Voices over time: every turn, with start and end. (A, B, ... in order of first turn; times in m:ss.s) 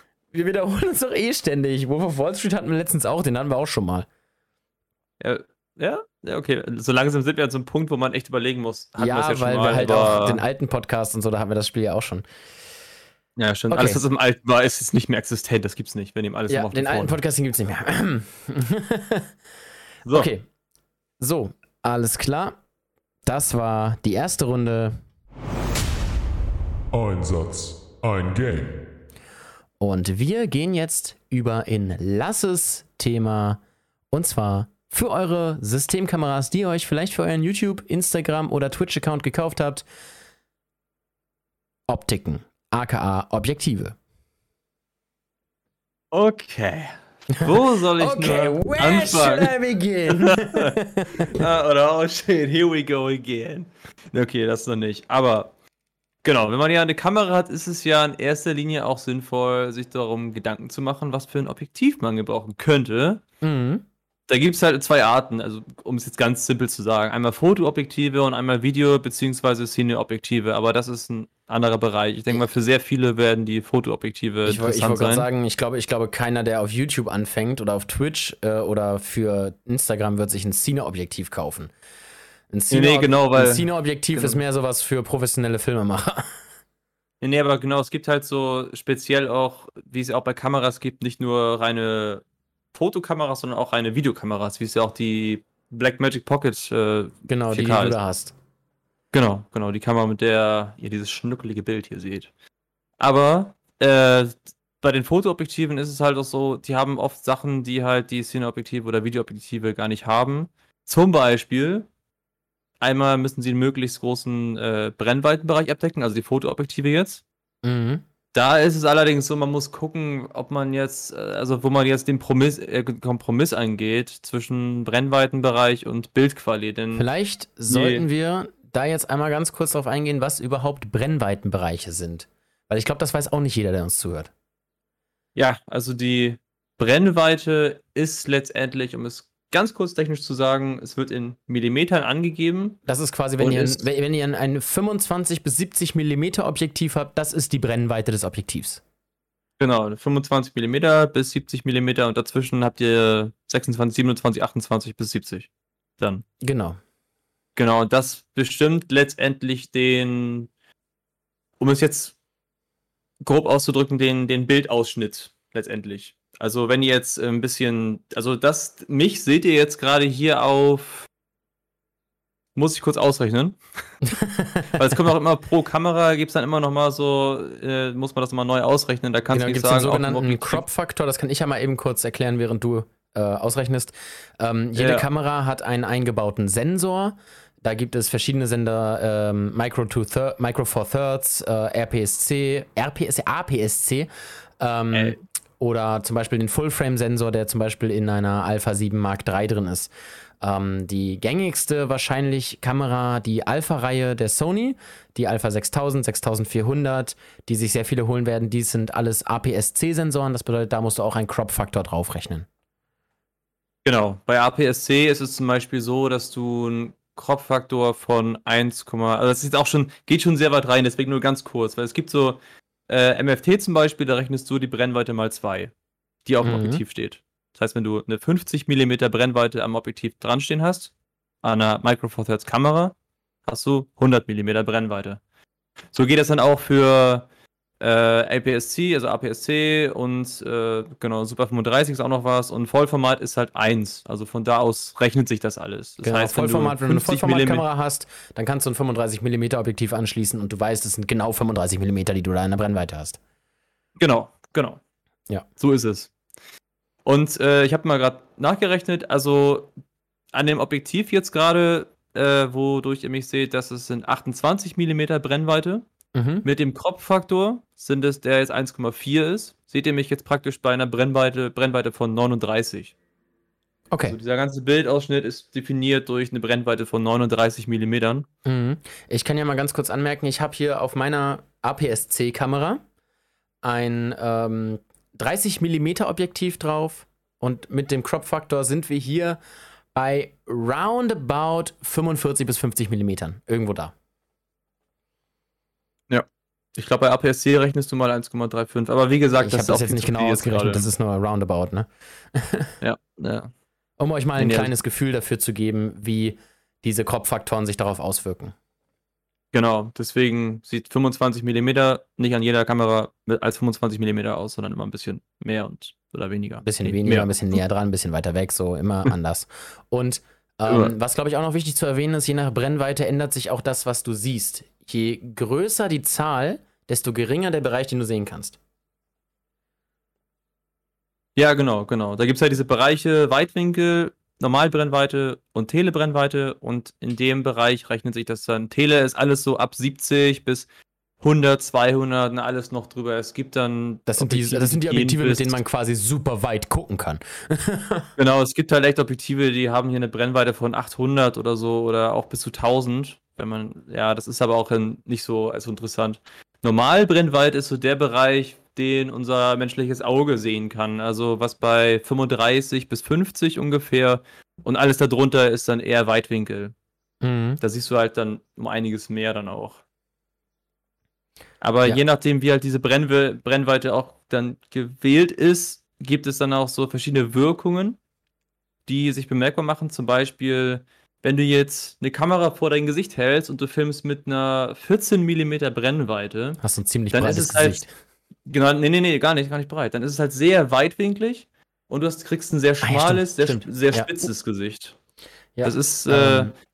0:00.3-0:04.1 A
0:05.2-0:10.4 B
0:09.0-0:12.2 A
0:13.4-0:17.2 B
0:13.7-0:14.0 A
0:16.5-0:19.3 A
0:20.0-0:20.3 B
0:20.1-0:20.4 A
0:21.2-0:22.6 A
0:23.3-0:25.0 A
0:26.9-0:28.9 C
0:29.8-0:33.6 A
0:34.1-0:39.8 A
0:41.9-0:44.0 A
0:46.1-0:55.5 B
0:47.4-0:51.4 A
0:56.2-1:03.2 B
1:03.4-1:03.8 A
1:04.3-1:15.3 B
1:14.5-1:21.7 A
1:22.5-1:26.3 A
1:22.7-1:24.4 B
1:27.2-1:38.0 B
1:37.3-1:38.4 A
1:39.1-1:42.3 B
1:43.0-1:51.9 B
1:52.8-1:57.2 B
1:57.6-1:58.0 A
1:58.3-2:07.1 B
2:07.0-2:14.3 A
2:07.7-2:08.1 B
2:15.4-2:22.8 B
2:22.9-2:28.8 A
2:23.4-2:23.9 B
2:29.6-2:35.5 B
2:36.0-2:36.2 B
2:36.4-2:36.8 A
2:37.6-2:40.5 B
2:41.6-2:42.2 B
2:43.2-2:51.1 B
2:52.6-2:53.6 B
2:54.0-2:54.8 A
2:54.8-3:00.6 B
2:59.3-3:14.1 A
3:04.8-3:05.1 B
3:14.6-3:19.9 A
3:20.4-3:32.5 A
3:33.8-3:45.7 B
3:46.2-3:50.9 B
3:46.4-3:46.8 A
3:51.4-3:55.2 B
3:55.9-3:57.3 B
3:57.8-4:07.6 B
4:06.0-4:13.2 A
4:14.0-4:14.8 B
4:15.6-4:16.1 B
4:17.0-4:19.7 B
4:20.3-4:25.8 B
4:26.1-4:26.4 A
4:26.4-4:32.9 B
4:33.9-4:34.2 A
4:34.0-4:38.3 B
4:38.4-4:42.8 A
4:43.6-4:49.4 A
4:49.9-4:53.9 A
4:56.1-5:00.9 B
4:59.4-5:02.7 A
5:02.8-5:03.5 B
5:04.0-5:08.6 A
5:04.4-5:04.7 B
5:09.5-5:17.3 B
5:16.6-5:28.6 A
5:20.7-5:20.9 B
5:31.4-5:40.7 B
5:41.2-5:45.6 B
5:44.1-5:48.1 A
5:48.2-6:06.7 B
6:07.2-6:07.6 A
6:07.6-6:09.8 B
6:11.6-6:18.0 B
6:18.9-6:26.6 B
6:26.6-6:27.9 A
6:27.1-6:27.8 B
6:28.5-6:35.0 B
6:32.8-6:34.3 A
6:35.6-6:36.5 A
6:35.6-6:36.5 B